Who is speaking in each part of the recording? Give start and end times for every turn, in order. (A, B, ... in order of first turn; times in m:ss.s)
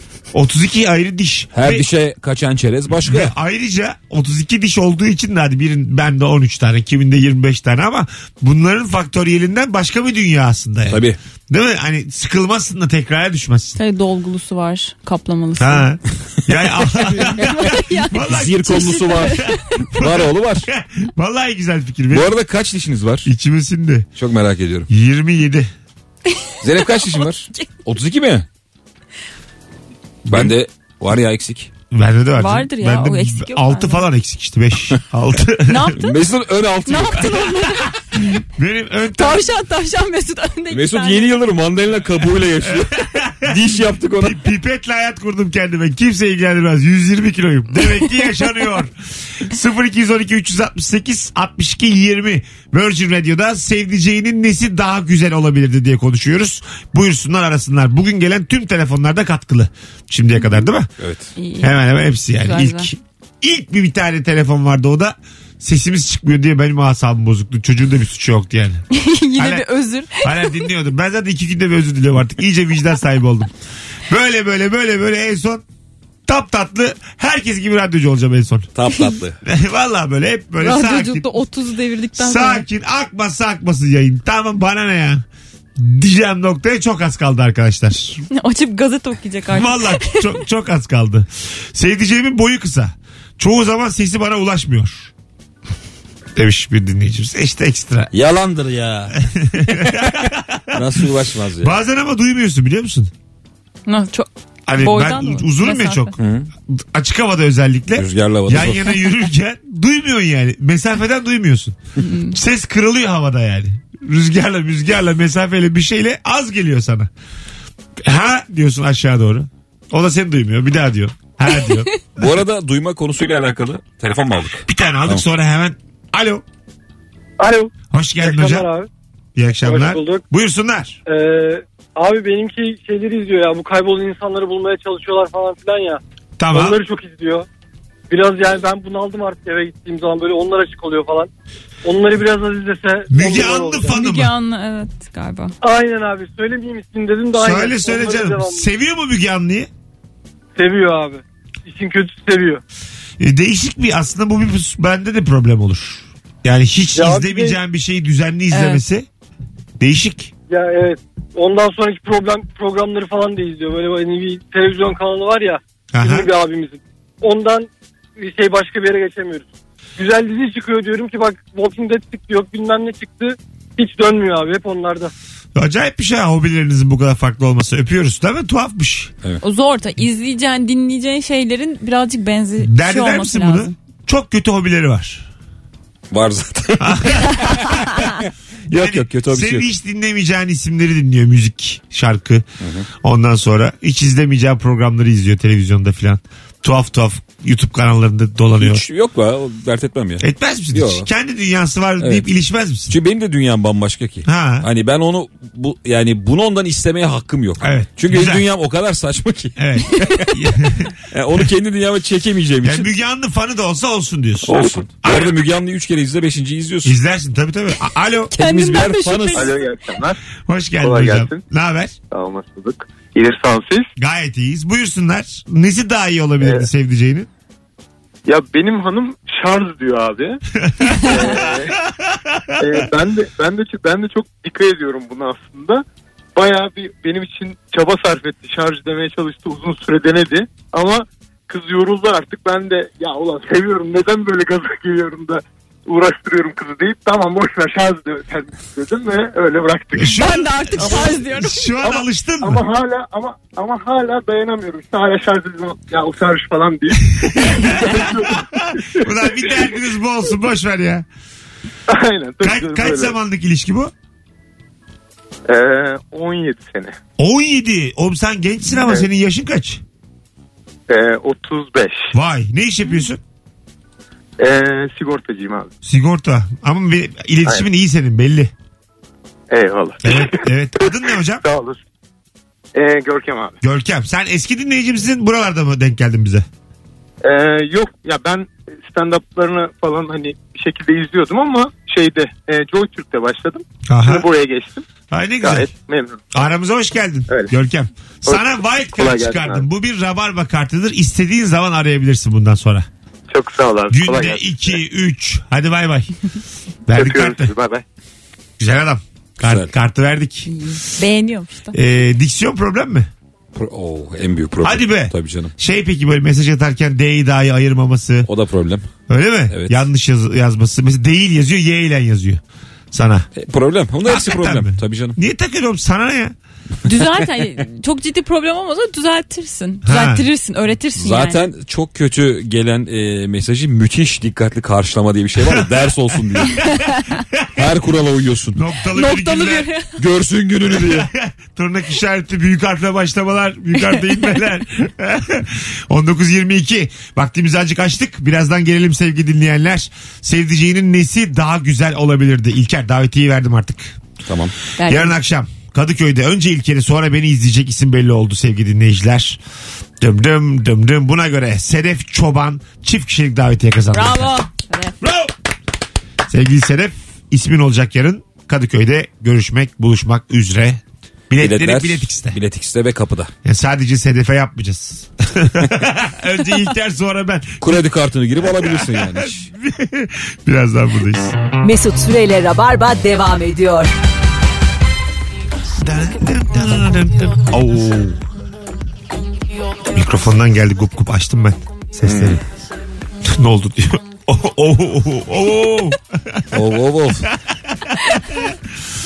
0:00.3-0:01.9 A
0:01.5-0:03.3 B
0:03.0-0:13.8 A
0:10.9-0:11.2 B
0:13.8-0:15.9 C
0:15.6-0:22.3 A
0:16.9-0:20.7 B
0:17.2-0:19.7 C
0:22.1-0:23.3 B
0:23.2-0:24.1 A
0:24.2-0:24.9 B
0:24.9-0:25.7 A
0:26.3-0:27.8 C
0:26.6-0:28.5 B
0:30.2-0:30.5 A
0:30.3-0:31.7 B
0:31.9-0:36.0 A
0:32.4-0:34.0 C
0:35.7-0:36.2 C
0:35.9-0:37.5 B
0:36.8-0:38.0 C
0:38.3-0:39.5 A
0:39.1-0:41.4 C
0:40.7-0:44.4 B
0:42.6-0:43.6 A
0:44.2-1:00.9 A
1:01.0-1:01.3 B
1:01.4-1:01.8 C
1:01.6-1:08.8 A
1:02.4-1:02.9 C
1:08.9-1:10.6 C
1:09.4-1:09.6 A
1:10.2-1:13.5 A
1:14.1-1:15.6 A
1:16.3-1:18.7 A
1:18.7-1:19.4 B
1:19.4-1:21.3 A
1:20.6-1:22.6 C
1:22.2-1:25.2 A
1:25.8-1:28.2 A
1:28.3-1:30.4 C
1:29.5-1:35.1 A
1:36.4-1:38.1 A
1:38.1-1:40.2 B
1:39.2-1:40.9 A
1:40.7-1:41.7 B
1:41.6-1:43.1 A
1:43.8-1:46.1 C
1:44.7-1:46.1 A
1:46.2-1:46.5 B
1:46.7-1:57.1 A
1:48.0-1:49.0 B
1:52.0-1:52.4 C
1:58.0-2:01.9 A
2:01.6-2:01.9 C
2:02.2-2:05.2 B
2:04.6-2:06.4 A
2:07.4-2:08.9 D
2:07.9-2:08.7 A
2:09.3-2:11.0 A
2:09.6-2:10.2 D
2:11.1-2:16.0 D
2:16.4-2:16.8 A
2:16.5-2:17.5 D
2:18.1-2:21.3 D
2:21.8-2:23.9 D
2:23.1-2:24.3 A
2:23.9-2:25.5 C
2:25.6-2:28.6 D
2:27.3-2:29.7 A
2:30.6-2:32.6 D
2:33.2-2:39.0 A
2:36.9-2:37.6 D
2:38.5-2:38.8 C
2:39.8-2:40.3 A
2:40.5-2:55.1 D
2:45.9-2:46.3 A
2:55.6-2:59.1 A
2:59.4-3:03.7 C
3:02.6-3:05.3 A
3:06.1-3:08.1 B
3:06.8-3:08.0 A
3:08.7-3:09.7 B
3:08.7-3:12.4 A
3:12.6-3:12.9 B
3:13.0-3:18.8 A
3:18.6-3:21.1 B
3:20.2-3:22.9 A
3:22.0-3:22.2 B
3:22.9-3:30.1 B
3:24.2-3:24.7 A
3:27.6-3:28.4 A
3:29.6-3:30.9 A
3:29.9-3:30.2 C
3:31.1-3:32.9 B
3:32.6-3:35.3 A
3:34.4-3:37.0 B
3:36.8-3:38.3 A
3:38.3-3:39.5 C
3:38.3-3:39.5 B
3:39.3-3:40.2 E
3:40.4-3:42.0 A
3:40.8-3:41.4 E
3:42.1-3:43.9 E
3:44.0-3:47.3 A
3:46.4-3:46.6 E
3:48.2-3:50.4 E
3:50.6-3:51.2 A
3:50.9-3:51.4 C
3:51.1-3:51.8 E
3:52.1-3:52.7 A
3:52.6-3:55.8 E
3:56.3-4:10.2 E
4:09.9-4:12.6 A
4:10.1-4:11.9 C
4:10.8-4:11.1 E
4:11.9-4:19.1 E
4:17.2-4:21.0 A
4:21.9-4:23.1 E
4:22.4-4:23.9 A
4:25.5-4:27.0 E
4:27.2-4:29.8 A
4:30.9-4:32.1 E
4:32.1-4:33.2 A
4:34.4-4:35.7 E
4:35.8-4:38.5 A
4:39.5-4:41.8 E
4:40.0-4:41.4 A
4:42.7-4:43.6 E
4:43.6-4:46.4 A
4:47.2-4:54.8 E
4:53.9-4:54.3 A
4:55.1-4:55.7 A
4:55.4-4:56.2 E
4:56.3-5:02.9 A
4:58.2-4:59.6 E
5:03.3-5:04.4 E
5:03.9-5:06.1 A
5:06.9-5:07.5 A
5:06.9-5:07.8 E
5:08.6-5:10.6 A
5:09.4-5:09.7 B
5:10.4-5:11.8 C
5:11.7-5:13.1 A
5:13.5-5:15.5 B
5:14.6-5:18.3 A
5:18.3-5:18.8 B
5:19.1-5:22.4 A
5:19.5-5:19.8 B
5:22.9-5:23.3 A
5:23.4-5:25.2 B
5:24.0-5:26.3 A
5:26.8-5:31.4 C
5:29.8-5:30.2 A
5:31.0-5:36.7 B
5:36.6-5:37.2 C
5:37.6-5:38.6 B
5:38.5-5:39.7 A
5:38.9-5:39.9 C
5:40.0-5:41.1 B
5:40.7-5:54.0 A
5:43.8-5:44.4 C
5:54.3-5:54.5 B
5:54.8-5:55.2 C
5:54.8-5:59.4 A
6:00.0-6:04.3 A
6:03.9-6:04.9 C
6:05.0-6:05.3 A
6:06.3-6:12.4 A
6:11.4-6:13.3 B
6:13.4-6:17.8 A
6:17.6-6:19.5 B
6:18.4-6:21.4 A
6:21.6-6:23.9 F
6:25.8-6:28.2 A
6:29.9-6:32.4 A
6:32.0-6:32.4 B
6:33.2-6:36.6 A
6:36.5-6:37.3 B
6:37.3-6:38.6 A